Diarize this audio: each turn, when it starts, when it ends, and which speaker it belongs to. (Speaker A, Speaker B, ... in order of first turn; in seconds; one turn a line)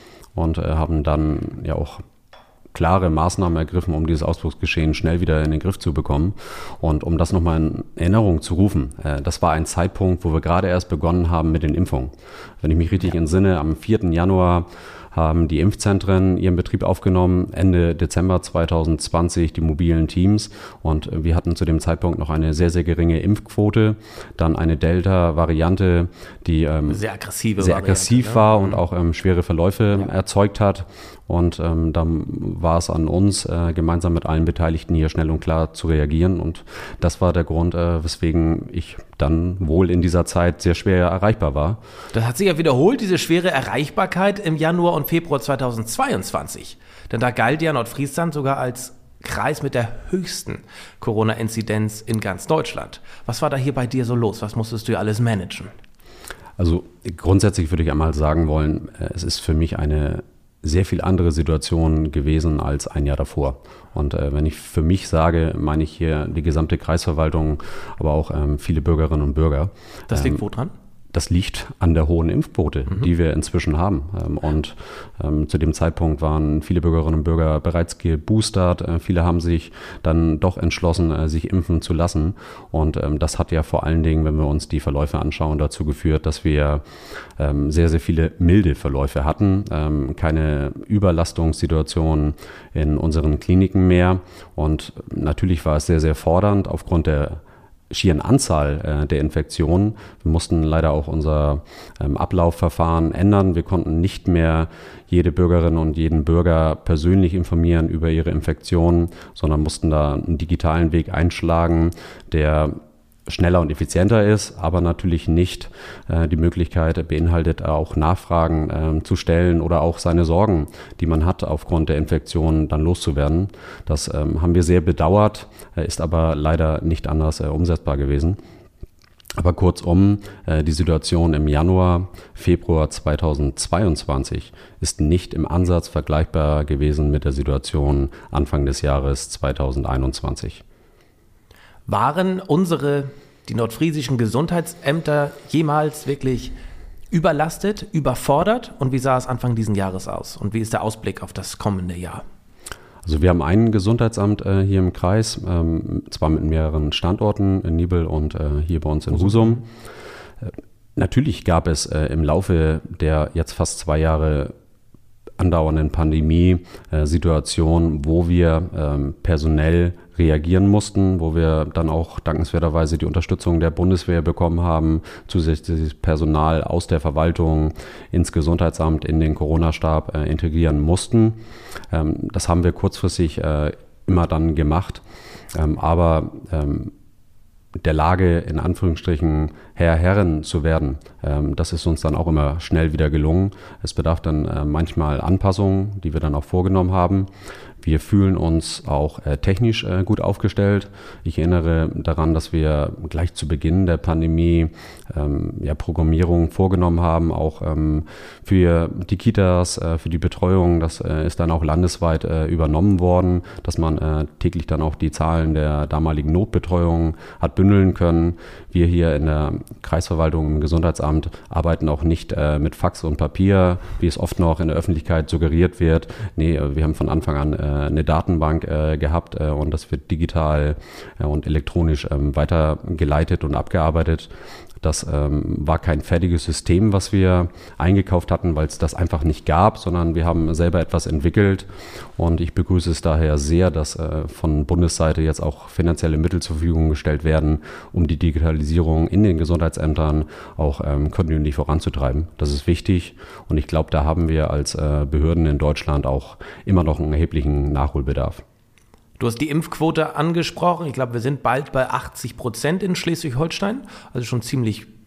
Speaker A: 0.3-2.0
Speaker A: 2.7-27.0
Speaker B: 26.9-28.8
Speaker A: 27.6-41.8
Speaker B: 42.1-55.7
Speaker A: 56.6-70.4
Speaker B: 70.1-70.7
Speaker A: 71.1-86.8
Speaker A: 87.4-128.4
Speaker A: 129.4-140.6
Speaker B: 141.9-146.5
Speaker B: 147.1-152.2
Speaker A: 153.1-159.7
Speaker A: 160.4-164.5
Speaker A: 165.4-181.4
Speaker A: 181.9-186.9
Speaker A: 187.8-197.3
Speaker A: 197.8-258.4
Speaker B: 259.2-264.9